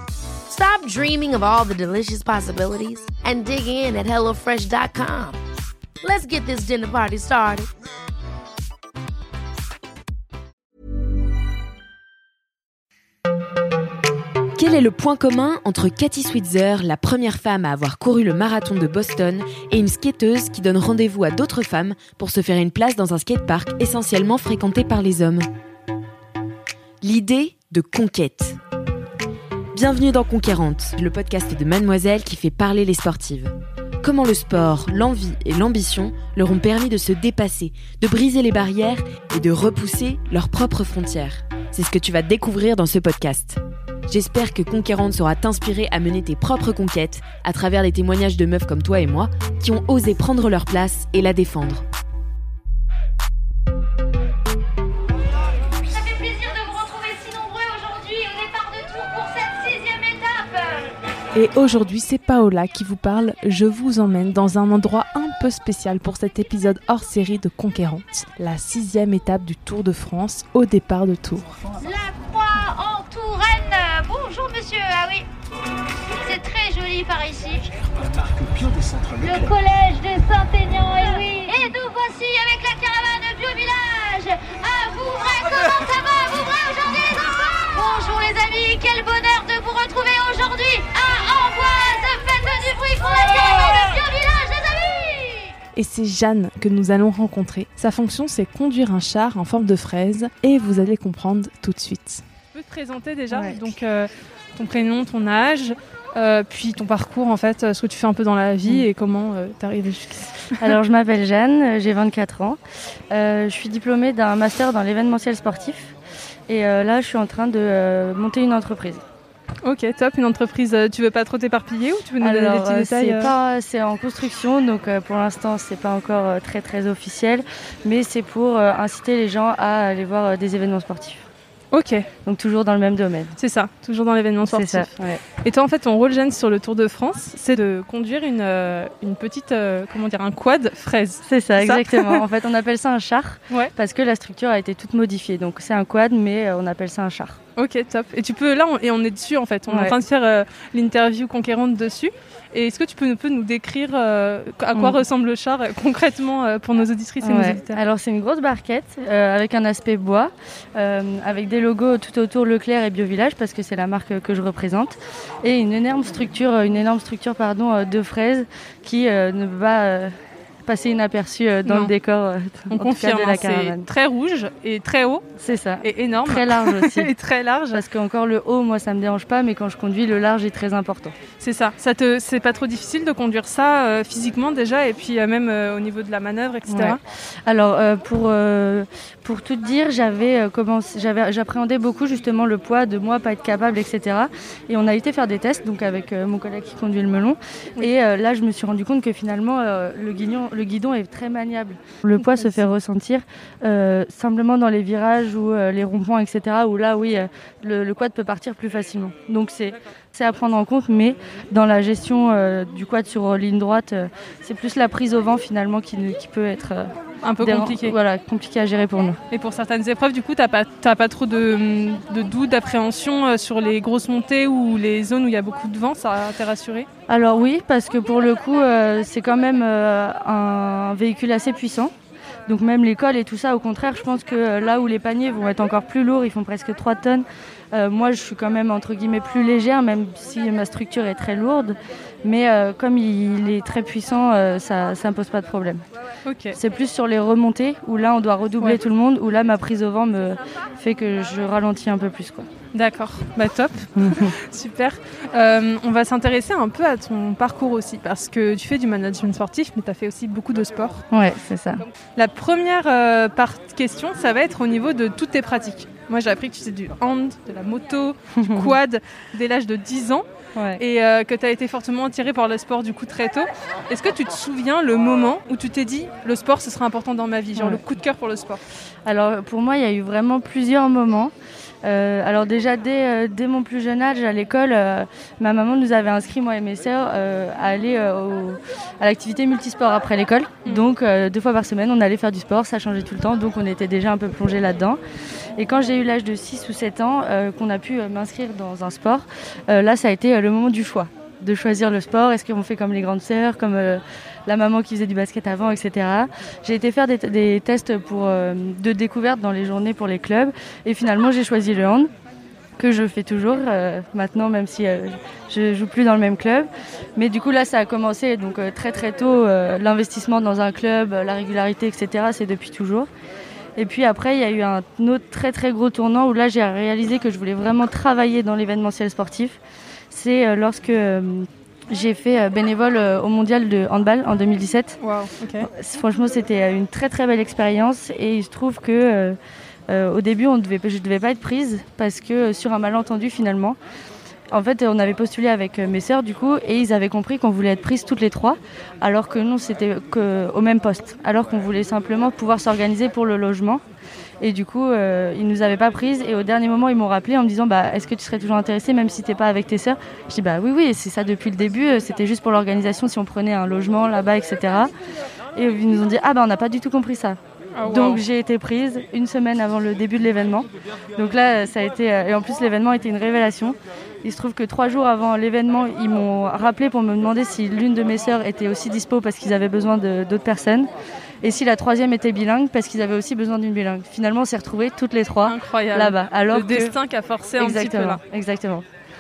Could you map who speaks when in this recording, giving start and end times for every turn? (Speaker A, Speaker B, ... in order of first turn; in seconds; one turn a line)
Speaker A: 0.5-5.4
Speaker A: 6.0-7.7
Speaker B: 14.6-25.5
Speaker B: 27.0-28.6
Speaker B: 29.7-51.9
Speaker C: 55.8-60.9
Speaker D: 61.4-71.6
Speaker C: 71.8-75.3
Speaker C: 76.2-77.7
Speaker C: 79.1-95.5
Speaker D: 95.8-102.2
Speaker E: 102.5-110.8
Speaker F: 103.3-103.6
Speaker F: 110.6-112.6
Speaker F: 113.1-115.9
Speaker F: 116.5-119.0
Speaker E: 119.6-123.3
Speaker F: 122.2-131.2
Speaker E: 131.7-132.1
Speaker F: 132.2-133.4
Speaker E: 133.4-142.2
Speaker F: 134.5-135.2
Speaker F: 141.3-147.4
Speaker E: 147.6-157.8
Speaker F: 149.7-149.9
Speaker F: 157.2-170.2
Speaker F: 170.7-173.9
Speaker E: 171.7-171.9
Speaker E: 172.7-175.2
Speaker F: 175.4-177.1
Speaker E: 175.8-177.8
Speaker F: 177.7-181.2
Speaker E: 181.4-187.0
Speaker F: 186.7-219.2
Speaker E: 202.2-202.6
Speaker E: 217.2-218.0
Speaker E: 219.3-226.9
Speaker F: 227.1-231.9
Speaker F: 232.5-245.8
Speaker E: 246.3-246.6
Speaker F: 246.6-252.5
Speaker E: 252.7-261.0
Speaker F: 254.0-254.3
Speaker F: 261.1-261.8
Speaker E: 261.8-270.2
Speaker F: 268.4-268.8
Speaker F: 270.6-270.8
Speaker E: 270.8-278.6
Speaker F: 279.1-281.3
Speaker F: 281.8-295.0
Speaker F: 295.6-312.1
Speaker F: 312.8-323.1
Speaker F: 323.8-329.6
Speaker F: 330.1-335.0
Speaker E: 335.0-335.7
Speaker F: 335.6-339.4
Speaker F: 339.9-343.8
Speaker F: 344.5-353.8
Speaker F: 354.4-364.9
Speaker F: 365.6-380.9
Speaker E: 367.8-368.2
Speaker F: 381.4-386.9
Speaker E: 385.5-388.2
Speaker F: 387.6-388.9